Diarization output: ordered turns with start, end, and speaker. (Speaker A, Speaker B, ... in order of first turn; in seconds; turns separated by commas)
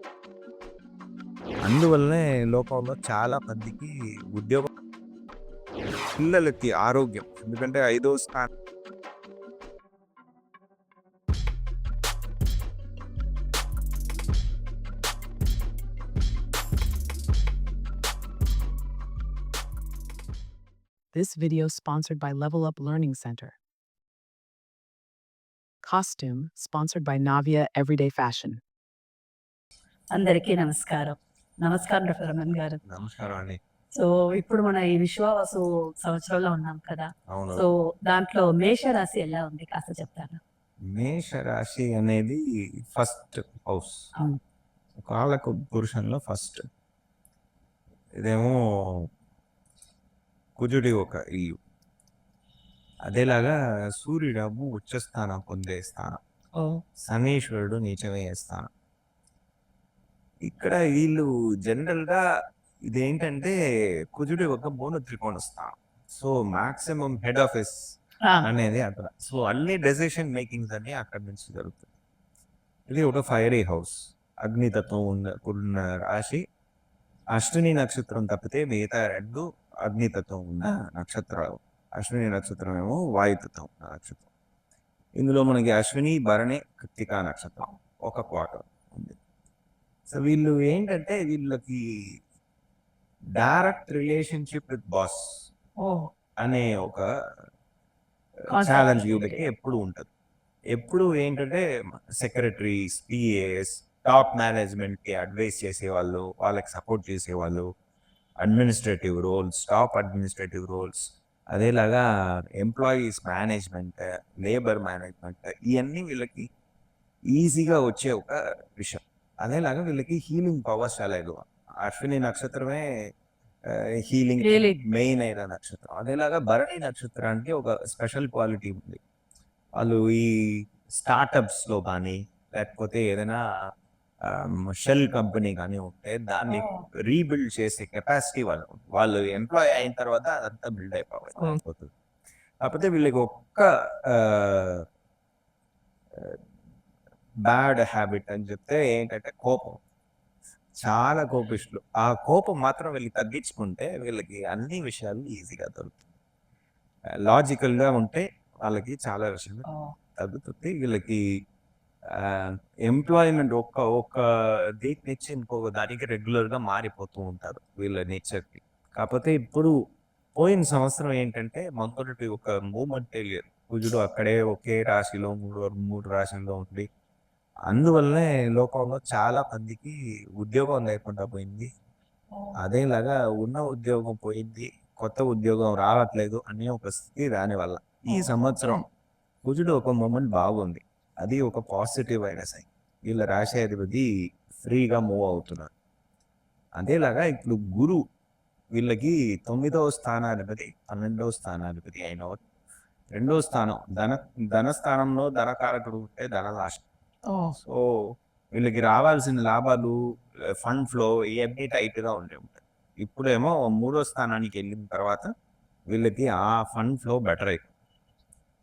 Speaker A: 1.6-4.7, Speaker A: 6.2-8.5, Speaker B: 21.1-23.6, Speaker B: 25.8-28.6, Speaker C: 30.1-32.8, Speaker A: 32.9-33.6, Speaker C: 33.9-40.4, Speaker A: 37.3-37.6, Speaker A: 40.9-42.4, Speaker A: 42.9-44.0, Speaker A: 45.0-46.6, Speaker A: 48.2-49.0, Speaker A: 50.6-51.6, Speaker A: 53.1-56.2, Speaker C: 56.6-56.8, Speaker A: 57.1-58.7, Speaker A: 60.5-62.2, Speaker A: 62.9-63.6, Speaker A: 64.1-67.8, Speaker A: 68.4-71.9, Speaker A: 72.9-76.4, Speaker A: 77.3-84.3, Speaker A: 85.2-89.2, Speaker A: 90.1-91.8, Speaker A: 93.4-95.2, Speaker C: 95.8-96.1, Speaker A: 96.4-97.0, Speaker C: 98.5-99.4, Speaker A: 98.5-100.1, Speaker A: 100.7-101.7, Speaker A: 102.2-107.7, Speaker A: 108.4-112.0, Speaker A: 112.6-116.5, Speaker A: 117.3-122.9, Speaker A: 123.7-129.0, Speaker C: 124.4-124.8, Speaker A: 129.8-133.4, Speaker A: 134.2-141.9, Speaker C: 136.5-136.9, Speaker A: 142.6-144.8, Speaker A: 147.4-149.8, Speaker A: 150.8-156.0, Speaker A: 157.2-161.2, Speaker C: 159.7-159.9, Speaker A: 162.2-164.2, Speaker A: 164.8-169.7, Speaker A: 170.4-176.9, Speaker A: 177.7-181.7, Speaker A: 182.6-188.8, Speaker C: 188.1-188.8, Speaker A: 189.4-194.1, Speaker A: 194.6-195.7, Speaker A: 196.8-198.0, Speaker A: 198.8-202.4, Speaker A: 203.2-206.8, Speaker C: 207.3-207.6, Speaker A: 207.6-207.9, Speaker A: 208.5-209.9, Speaker A: 210.6-215.3, Speaker A: 215.9-217.7